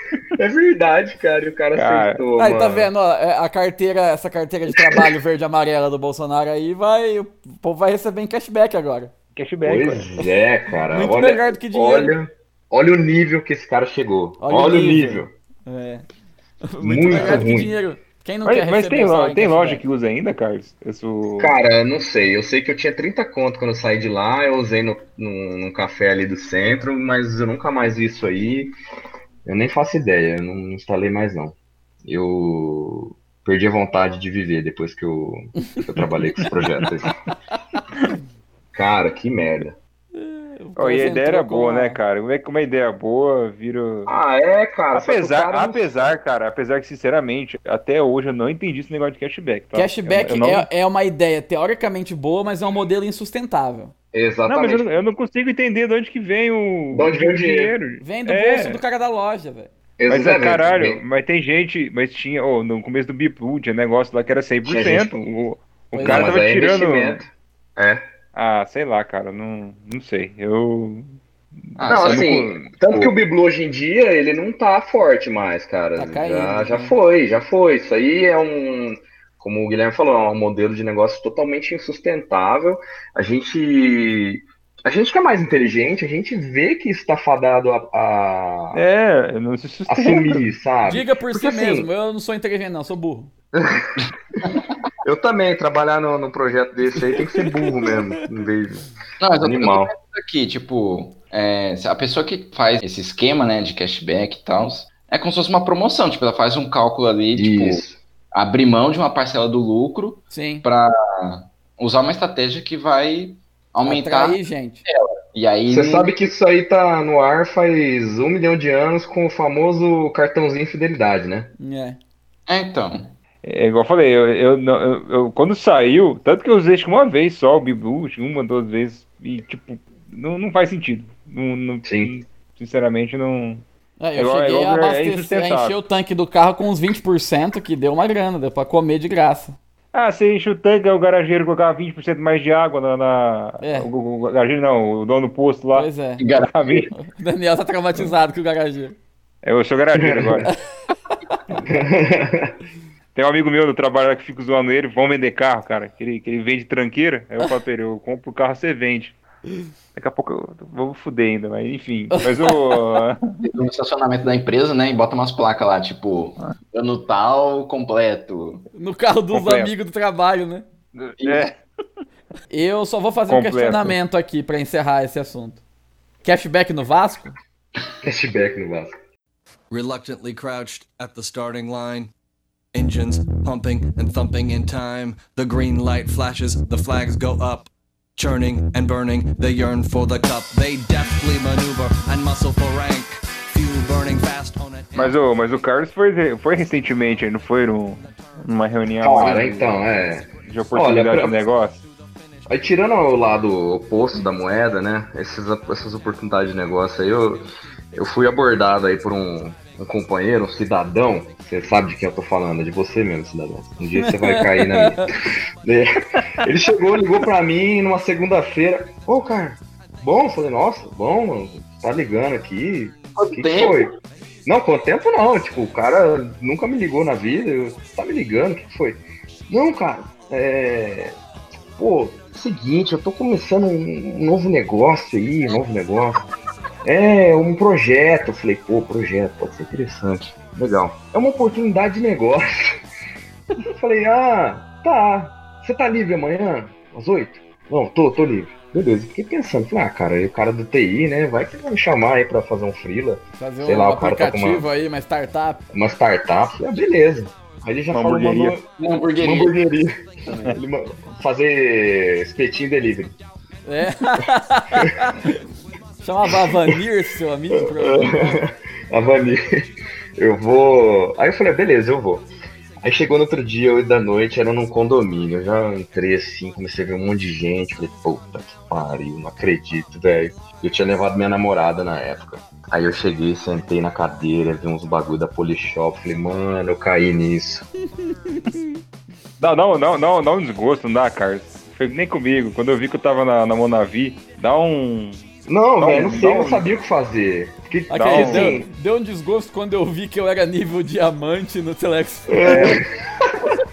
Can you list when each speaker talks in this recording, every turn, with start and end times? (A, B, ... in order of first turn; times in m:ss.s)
0:00.4-0:02.9 A
0:01.7-0:02.2 B
0:02.4-0:09.1 C
0:09.4-0:10.1 B
0:09.6-0:15.3 A
0:10.9-0:12.1 C
0:14.4-0:16.0 C
0:16.6-0:19.8 C
0:16.8-0:17.8 A
0:17.1-0:17.5 B
0:18.4-0:21.6 B
0:21.4-0:28.7 A
0:29.4-0:37.1 A
0:38.7-0:39.8 A
0:40.1-0:42.0 C
0:40.8-0:44.1 B
0:44.1-0:45.8 A
0:44.9-0:50.7 B
0:49.8-0:53.9 C
0:54.1-0:54.9 A
0:54.5-0:58.8 B
0:56.9-0:57.7 A
0:58.0-0:59.7 C
1:00.0-1:01.0 A
1:00.1-1:07.2 B
1:04.6-1:05.1 A
1:05.9-1:06.4 C
1:06.0-1:08.0 A
1:08.4-1:11.1 B
1:11.7-1:12.7 B
1:11.8-1:13.1 D
1:11.9-1:28.8 A
1:16.0-1:17.0 C
1:28.7-1:30.4 B
1:29.9-1:31.9 A
1:30.8-1:33.3 C
1:33.5-1:34.5 A
1:35.0-1:39.9 A
1:39.2-1:56.1 D
1:47.3-1:48.0 A
1:50.3-1:50.6 C
1:53.9-1:54.8 C
1:55.7-2:01.5 A
2:01.6-2:02.0 C
2:02.5-2:03.1 D
2:03.4-2:13.6 B
2:11.8-2:12.1 A
2:14.0-2:19.6 C
2:14.2-2:15.8 B
2:19.9-2:25.9 B
2:23.6-2:23.9 C
2:25.7-2:26.2 C
2:26.2-2:26.9 D
2:26.5-2:26.9 B
2:27.0-2:29.0 C
2:29.4-2:30.5 B
2:30.0-2:30.5 A
2:31.7-2:32.5 A
2:33.2-2:39.2 B
2:40.0-2:43.3 B
2:42.1-2:42.8 C
2:43.4-2:48.7 D
2:48.7-2:50.7 C
2:49.3-2:49.7 B
2:51.0-2:51.6 B
2:51.2-2:51.5 D
2:52.5-2:55.6 C
2:53.3-2:54.0 B
2:56.2-2:57.4 C
2:58.0-2:58.9 A
2:59.7-3:02.1 E
3:02.7-3:15.2 E
3:15.0-3:19.8 B
3:19.0-3:21.4 A
3:20.4-3:21.8 B
3:22.5-3:35.1 A
3:34.1-3:35.0 C
3:35.6-3:35.9 A
3:36.4-3:43.9 A
3:43.2-3:43.9 D
3:44.5-3:51.2 A
3:51.8-3:56.2 A
3:56.8-4:02.8 A
4:03.6-4:14.7 A
4:13.4-4:15.6 C
4:15.7-4:18.6 A
4:17.9-4:18.6 B
4:18.8-4:19.6 D
4:19.2-4:23.1 A
4:20.3-4:20.6 B
4:23.7-4:25.1 C
4:26.0-4:28.4 C
4:27.6-4:29.6 A
4:30.2-4:32.3 A
4:32.8-4:47.7 A
4:48.1-4:48.6 C
4:49.4-4:55.2 B
4:55.5-4:58.7 A
4:55.8-4:56.7 B
4:57.9-5:02.7 C
4:57.9-4:58.6 B
5:02.3-5:02.9 A
5:02.4-5:02.8 B